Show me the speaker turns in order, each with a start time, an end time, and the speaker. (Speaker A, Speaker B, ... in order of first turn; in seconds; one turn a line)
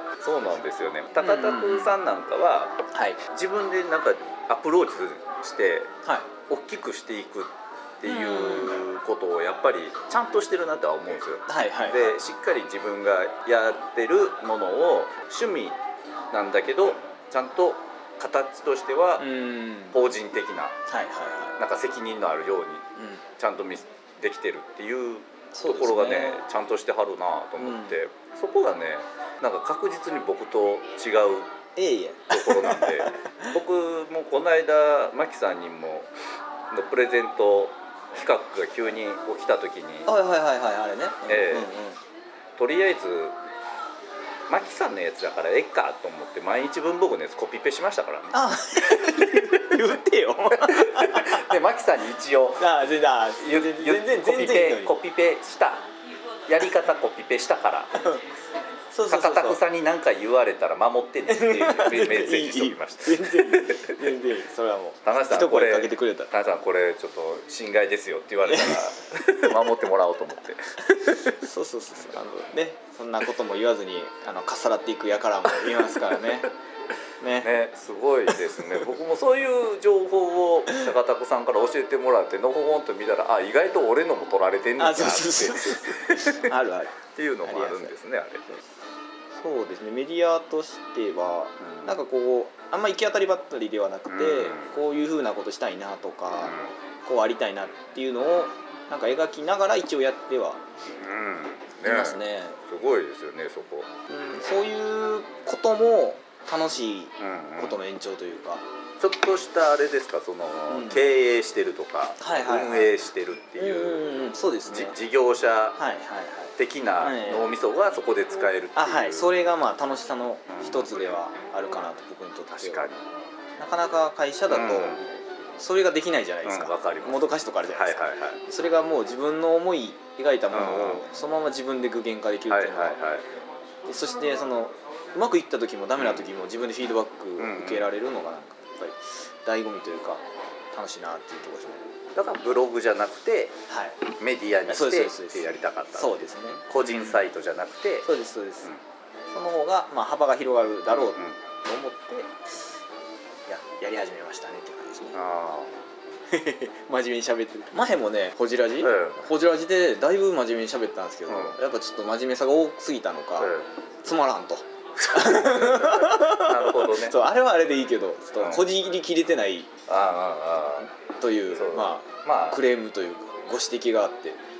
Speaker A: 0.2-5.9
Speaker B: 1.2-2.0
Speaker B: 2.9-3.2
Speaker A: 6.5-15.8
Speaker B: 8.0-8.8
Speaker B: 11.5-12.2
Speaker A: 16.3-19.3
Speaker B: 19.2-20.0
Speaker A: 19.9-20.7
Speaker B: 20.9-21.5
Speaker A: 21.6-22.8
Speaker B: 23.0-23.2
Speaker A: 23.4-31.5
Speaker B: 25.5-26.4
Speaker B: 27.6-28.0
Speaker B: 31.8-33.5
Speaker A: 32.3-36.1
Speaker A: 36.7-40.1
Speaker B: 40.1-42.0
Speaker A: 41.3-41.7
Speaker A: 42.5-43.4
Speaker A: 44.5-48.4
Speaker B: 48.3-51.6
Speaker A: 50.6-52.7
Speaker B: 52.6-54.9
Speaker A: 53.4-55.9
Speaker A: 56.5-58.0
Speaker B: 58.9-59.6
Speaker A: 59.1-64.0
Speaker B: 61.3-66.3
Speaker A: 65.0-71.3
Speaker B: 68.5-69.7
Speaker B: 70.9-76.5
Speaker B: 77.2-77.5
Speaker A: 77.4-86.5
Speaker B: 78.3-78.7
Speaker B: 84.8-87.9
Speaker A: 87.1-88.5
Speaker B: 89.4-100.6
Speaker A: 91.6-92.0
Speaker A: 94.1-94.7
Speaker A: 96.4-96.7
Speaker A: 101.0-103.9
Speaker B: 101.8-102.6
Speaker B: 104.1-108.6
Speaker A: 107.2-107.8
Speaker A: 109.0-114.1
Speaker B: 110.7-111.0
Speaker B: 112.2-113.0
Speaker B: 113.6-115.0
Speaker A: 114.7-115.8
Speaker B: 115.8-117.5
Speaker A: 116.6-119.3
Speaker B: 118.7-122.8
Speaker A: 120.5-121.2
Speaker A: 122.5-123.0
Speaker B: 123.6-125.0
Speaker A: 124.5-125.0
Speaker B: 125.6-133.0
Speaker A: 126.4-128.4
Speaker A: 130.5-131.1
Speaker A: 132.5-133.2
Speaker B: 133.9-140.2
Speaker A: 136.0-136.2
Speaker A: 137.4-137.9
Speaker B: 140.7-141.9
Speaker A: 142.1-143.5
Speaker B: 143.7-144.0
Speaker A: 144.2-148.1
Speaker B: 144.7-147.2
Speaker B: 148.0-148.7
Speaker B: 149.3-152.5
Speaker A: 150.9-151.3
Speaker B: 153.5-155.2
Speaker A: 155.1-155.7
Speaker B: 156.3-163.5
Speaker A: 158.8-159.2
Speaker A: 161.3-161.6
Speaker A: 163.4-163.7
Speaker B: 164.0-169.7
Speaker A: 165.0-167.2
Speaker A: 168.4-168.7
Speaker A: 169.9-170.9
Speaker B: 171.1-174.4
Speaker A: 171.5-172.6